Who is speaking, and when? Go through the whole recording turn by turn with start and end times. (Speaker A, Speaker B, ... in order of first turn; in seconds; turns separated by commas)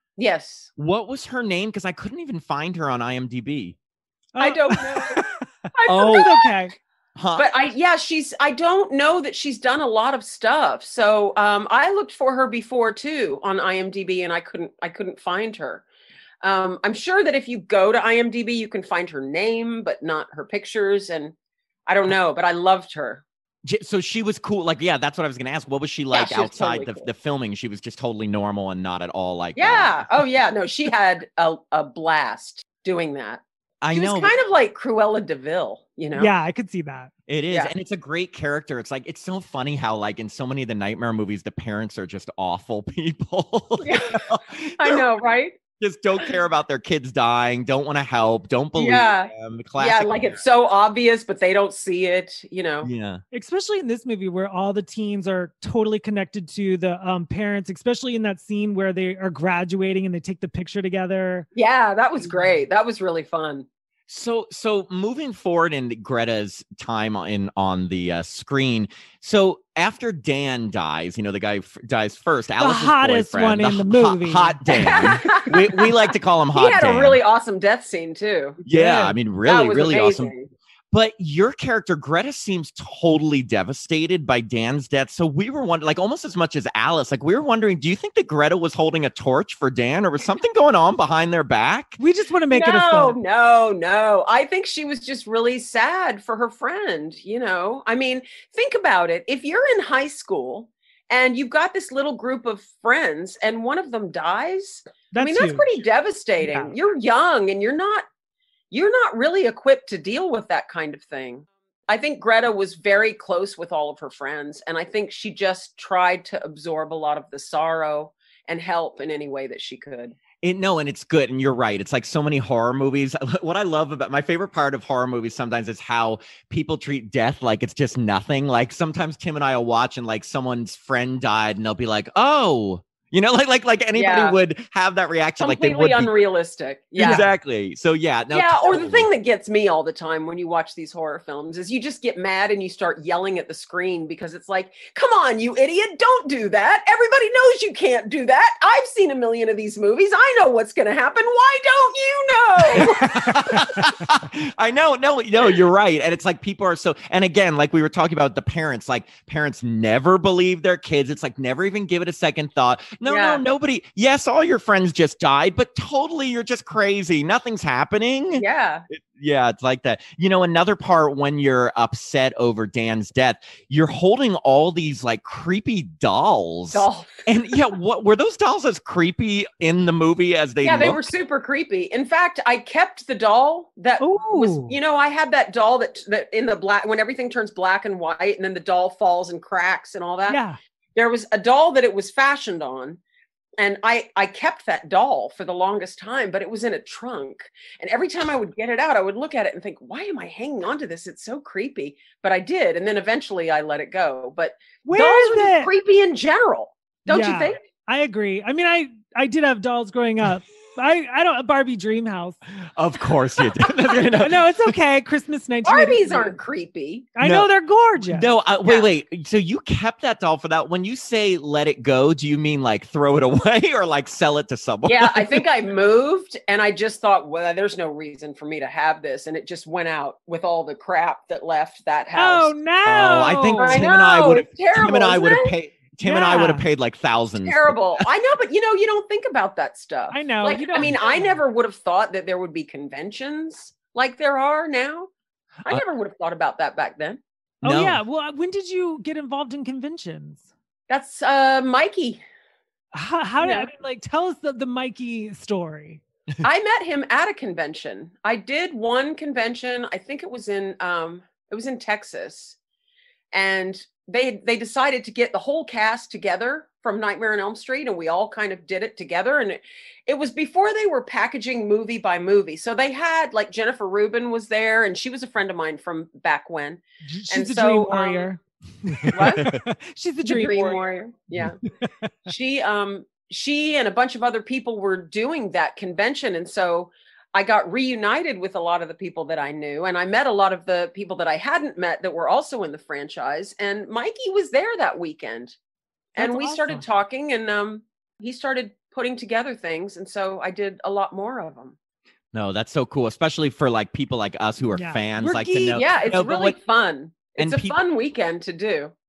Speaker A: 0.2-0.7, Speaker B: 0.8-3.8, Speaker C: 4.3-6.8, Speaker A: 4.4-6.5, Speaker B: 5.9-6.3, Speaker B: 7.2-7.5, Speaker A: 7.4-15.9, Speaker A: 16.4-21.4, Speaker A: 21.9-23.2, Speaker B: 23.6-30.1, Speaker A: 26.1-27.1, Speaker A: 29.6-36.3, Speaker B: 33.8-34.3, Speaker C: 36.1-37.1, Speaker B: 37.3-45.1, Speaker A: 43.8-45.6, Speaker B: 45.8-50.4, Speaker A: 48.8-52.9, Speaker B: 52.8-53.2, Speaker C: 53.3-61.5, Speaker A: 61.5-63.7, Speaker B: 64.1-77.2, Speaker C: 72.6-75.2, Speaker A: 74.7-78.6, Speaker C: 78.7-79.2, Speaker B: 78.7-80.3, Speaker A: 79.5-80.5, Speaker B: 80.9-92.0, Speaker C: 92.0-93.2, Speaker A: 92.5-108.1, Speaker C: 105.1-105.7, Speaker C: 106.4-106.7, Speaker A: 108.7-120.2, Speaker B: 120.4-136.1, Speaker A: 133.9-134.4, Speaker A: 135.4-137.3, Speaker B: 137.0-139.1, Speaker C: 137.0-137.3, Speaker A: 138.3-153.6, Speaker B: 152.8-181.1, Speaker C: 153.1-153.6, Speaker A: 163.1-163.4, Speaker A: 168.4-168.8, Speaker A: 176.7-177.3, Speaker A: 180.6-190.4, Speaker C: 184.0-184.8, Speaker C: 190.3-190.6, Speaker A: 190.9-193.0, Speaker A: 193.6-207.6, Speaker C: 204.8-205.7, Speaker C: 207.1-212.4, Speaker B: 212.6-214.8, Speaker C: 214.1-216.3, Speaker A: 215.6-217.1, Speaker C: 217.2-218.3, Speaker B: 217.2-217.5, Speaker B: 218.0-225.5, Speaker A: 224.8-232.5, Speaker C: 232.2-233.8, Speaker B: 232.8-238.1, Speaker A: 233.6-235.6, Speaker C: 236.0-236.6, Speaker A: 237.4-245.1, Speaker C: 240.1-241.3, Speaker B: 240.8-241.3, Speaker A: 245.6-247.2, Speaker B: 247.6-248.0, Speaker C: 247.6-250.5, Speaker A: 250.9-252.2, Speaker C: 252.9-256.0, Speaker A: 253.4-253.7, Speaker A: 256.4-262.6, Speaker A: 263.3-278.3, Speaker C: 277.1-280.8, Speaker B: 278.9-279.6, Speaker A: 279.1-279.5, Speaker A: 280.2-281.6, Speaker C: 281.7-282.1, Speaker A: 282.3-295.6, Speaker A: 296.1-301.8, Speaker C: 296.2-296.8, Speaker B: 302.3-306.6, Speaker C: 304.8-305.9, Speaker A: 305.7-308.9, Speaker B: 307.4-307.8